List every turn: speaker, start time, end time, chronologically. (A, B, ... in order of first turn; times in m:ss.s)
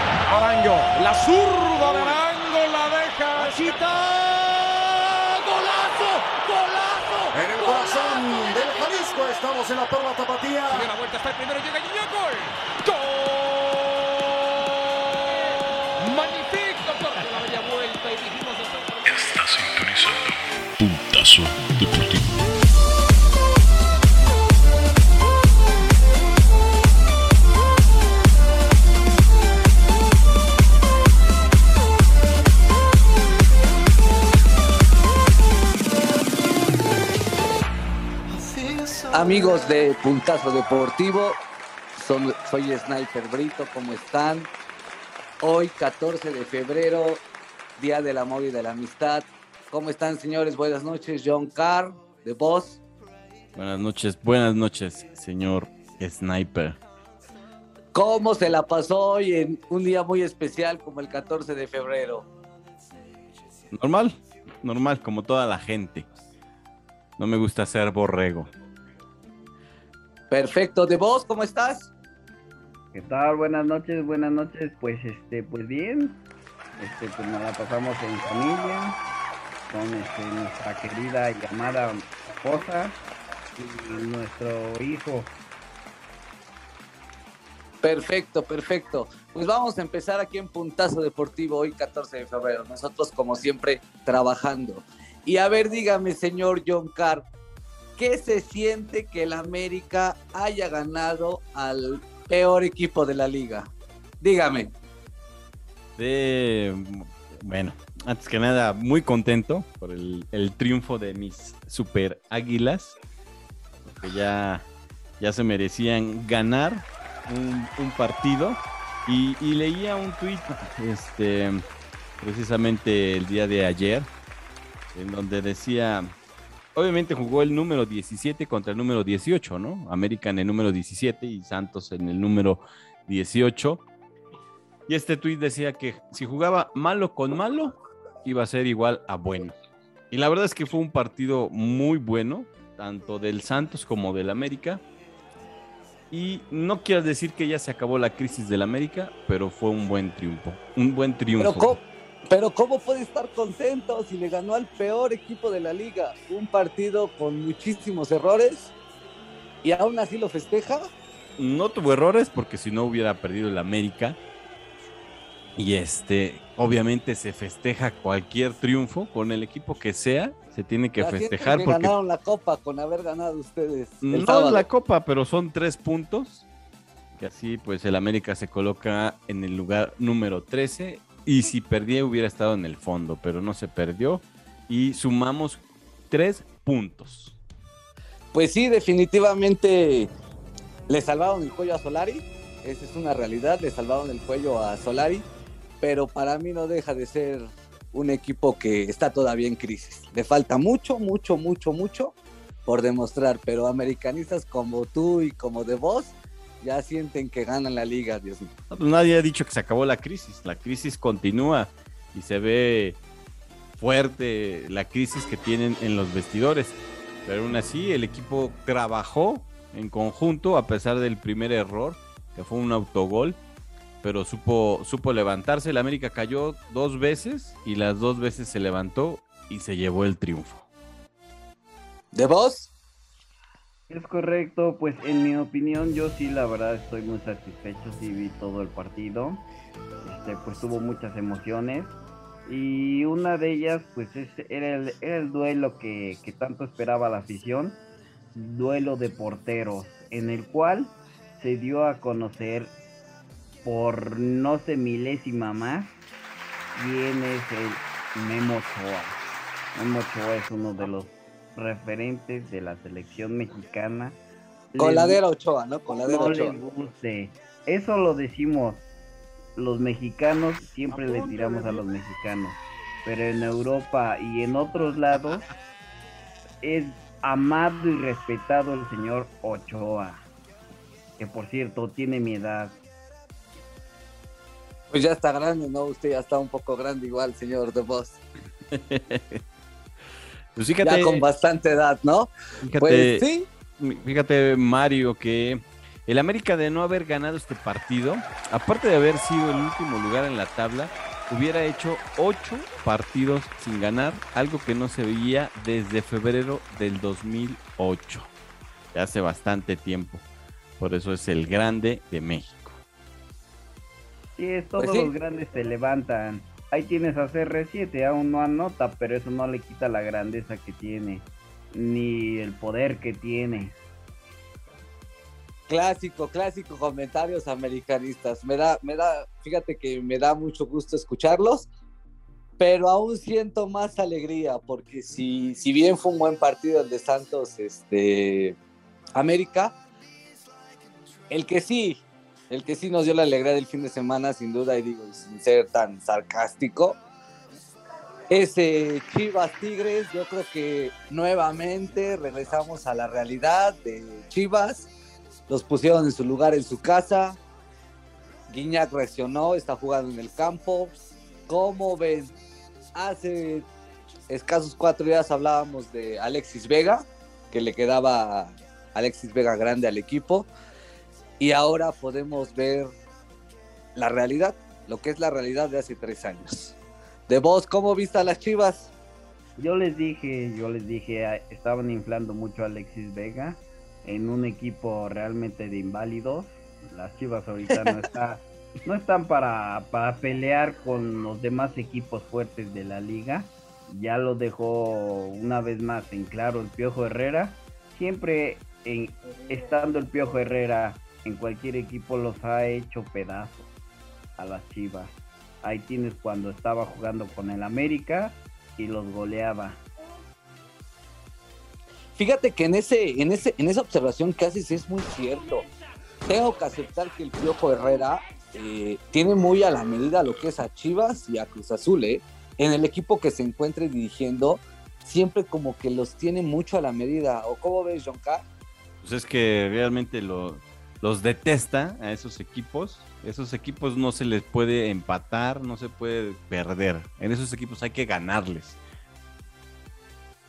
0:00.2-0:09.2 A
0:01.8-0:02.2 B
0:03.3-0:04.0 B
0:07.3-0:10.9 B
0:10.7-0:19.1 A
0:19.0-0:22.4 C
0:39.1-0:41.4 D
0:41.9-0:44.5 D
0:45.4-0:47.2 D
0:47.8-0:52.8 D
0:53.5-0:56.8 E
0:57.9-1:02.3 D
1:03.7-1:06.1 E
1:07.2-1:08.5 E
1:10.3-1:11.9 D
1:12.9-1:16.2 F
1:16.8-1:19.0 F
1:19.7-1:23.0 F
1:23.6-1:25.4 F
1:27.8-1:37.3 D
1:38.0-1:44.7 D
1:46.0-1:53.0 E
1:53.8-1:54.6 E
1:55.2-2:01.6 E
2:02.2-2:04.1 E
2:04.9-2:06.1 E
2:06.7-2:13.8 E
2:14.9-2:19.5 E
2:20.1-2:24.8 E
2:26.1-2:31.8 E
2:31.4-2:38.7 D
2:39.6-2:40.9 D
2:41.4-2:44.2 E
2:45.6-2:51.9 E
2:51.0-2:54.7 D
2:54.0-2:56.5 E
2:57.2-3:07.4 E
3:08.3-3:10.1 D
3:10.9-3:15.3 D
3:15.8-3:28.5 D
3:28.7-3:33.0 E
3:33.8-3:43.4 E
3:44.0-3:50.6 E
3:52.1-3:52.7 D
3:53.9-3:59.4 F
4:00.0-4:07.8 F
4:08.3-4:12.7 F
4:13.6-4:16.0 F
4:16.7-4:19.2 F
4:19.7-4:24.2 F
4:24.7-4:25.2 F
4:24.8-4:26.5 D
4:26.0-4:28.8 F
4:29.6-4:35.4 F
4:36.6-4:40.2 F
4:41.2-4:42.8 F
4:44.9-4:48.2 D
4:48.7-4:49.4 E
4:50.6-4:51.2 E
4:50.8-4:53.5 D
4:52.6-4:53.2 E
4:53.8-5:08.3 E
5:08.9-5:10.2 E
5:10.8-5:12.8 E
5:14.4-5:23.8 F
5:14.8-5:15.1 D
5:25.7-5:31.7 D
5:32.6-5:38.6 D
5:39.1-5:39.8 D
5:41.3-5:47.0 D
5:48.3-5:54.9 D
5:55.5-5:57.4 D
5:58.5-6:00.9 D
6:01.5-6:02.4 D
6:02.9-6:03.7 D
6:04.3-6:10.5 D
6:11.4-6:12.9 D
6:13.9-6:16.8 D
6:17.3-6:18.9 D
6:19.6-6:43.7 F
6:44.4-6:49.8 F
6:52.2-6:55.7 D
6:56.2-7:08.4 D
7:09.0-7:18.8 E